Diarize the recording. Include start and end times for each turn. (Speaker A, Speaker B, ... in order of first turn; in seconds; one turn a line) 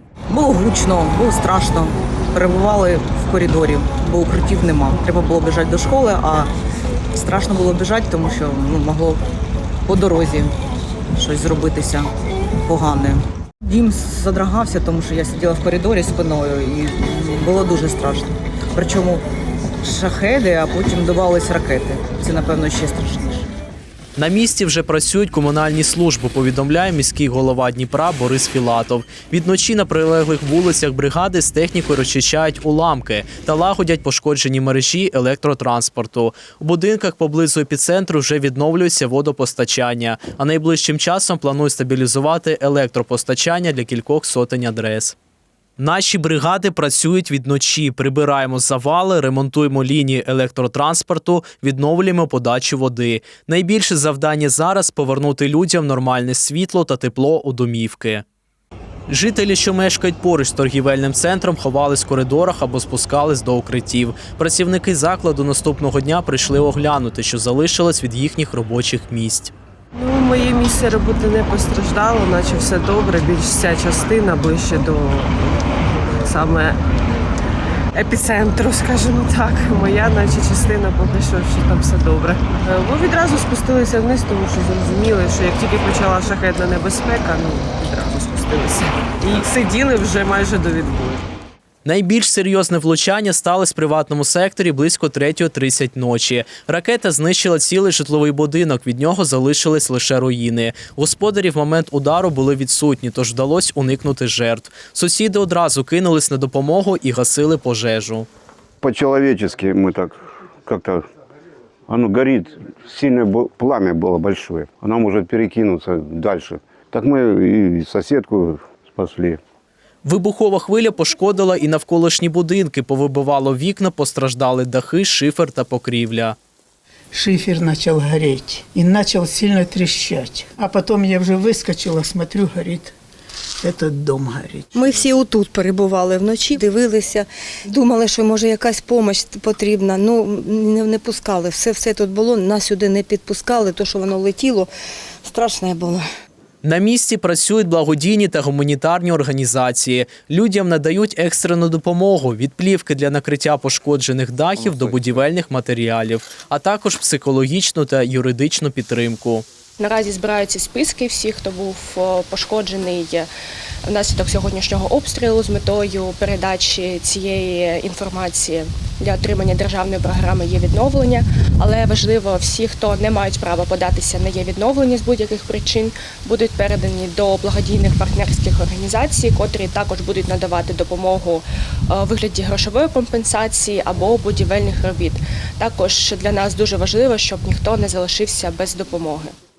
Speaker A: 0.3-6.5
Speaker A: 7.1-9.2
Speaker A: 9.9-10.5
Speaker A: 11.1-12.1
Speaker A: 12.6-19.2
Speaker A: 19.8-23.5
Speaker B: 24.2-45.1
Speaker B: 45.8-58.2
Speaker B: 59.1-69.5
Speaker C: 69.9-75.3
Speaker C: 76.2-76.8
Speaker C: 77.9-91.2
Speaker B: 91.8-108.3
Speaker D: 108.8-111.0
Speaker D: 111.9-119.4
Speaker B: 120.0-126.3
Speaker E: 127.1-132.9
Speaker E: 133.6-135.0
Speaker F: 134.7-144.7
Speaker F: 145.2-146.0
Speaker B: 146.6-159.4
Speaker G: 159.8-163.3
Speaker G: 163.9-189.3